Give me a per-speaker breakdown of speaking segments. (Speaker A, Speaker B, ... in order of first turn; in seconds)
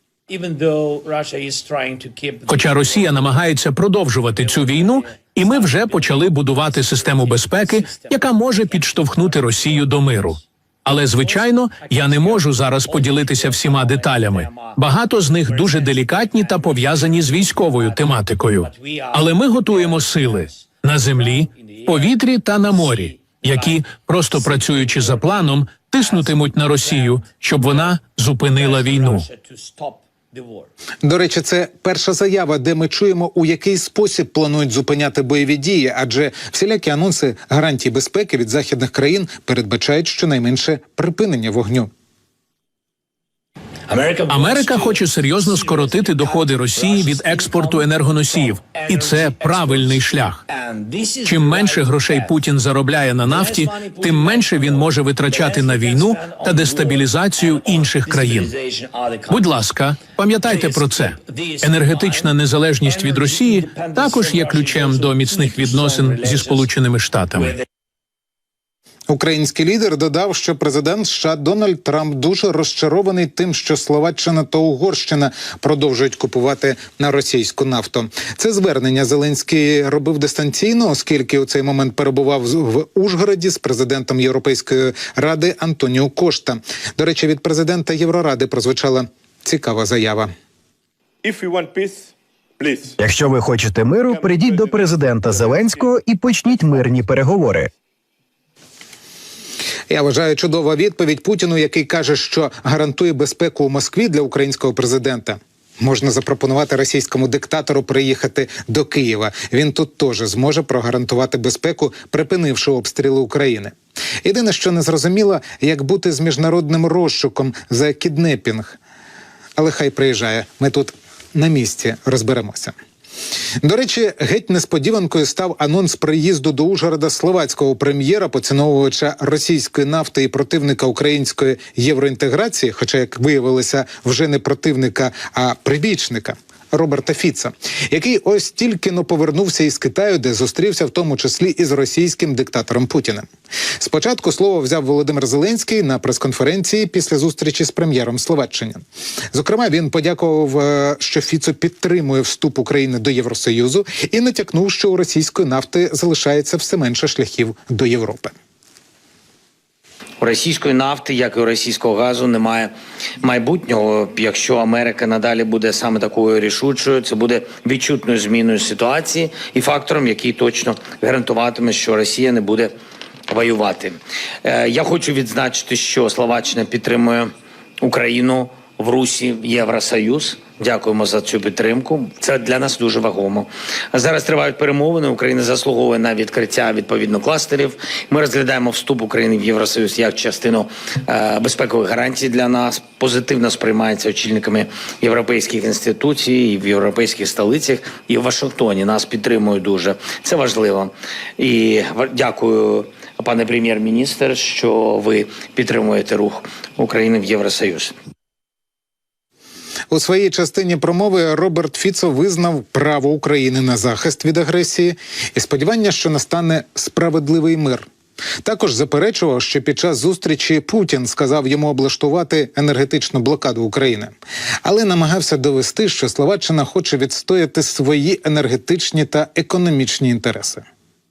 Speaker A: 0.3-3.5, 4.3-10.3, 11.2-14.8, 15.4-27.9, 28.5-30.7, 43.9-52.4, 53.2-59.5, 60.4-66.7, 67.3-67.6, 160.2-172.7, 173.3-177.3, 177.8-207.9
Speaker B: 2.5-29.3, 44.3-50.4, 51.2-58.5, 59.3-67.6
Speaker C: 31.0-41.9, 69.1-90.3, 99.9-118.8, 119.6-122.8, 123.6-143.3, 143.8-158.3, 209.9-217.9, 218.4-224.1, 224.7-230.6
Speaker D: 91.2-93.0, 94.0-95.9, 96.5-97.0
Speaker E: 93.0-97.7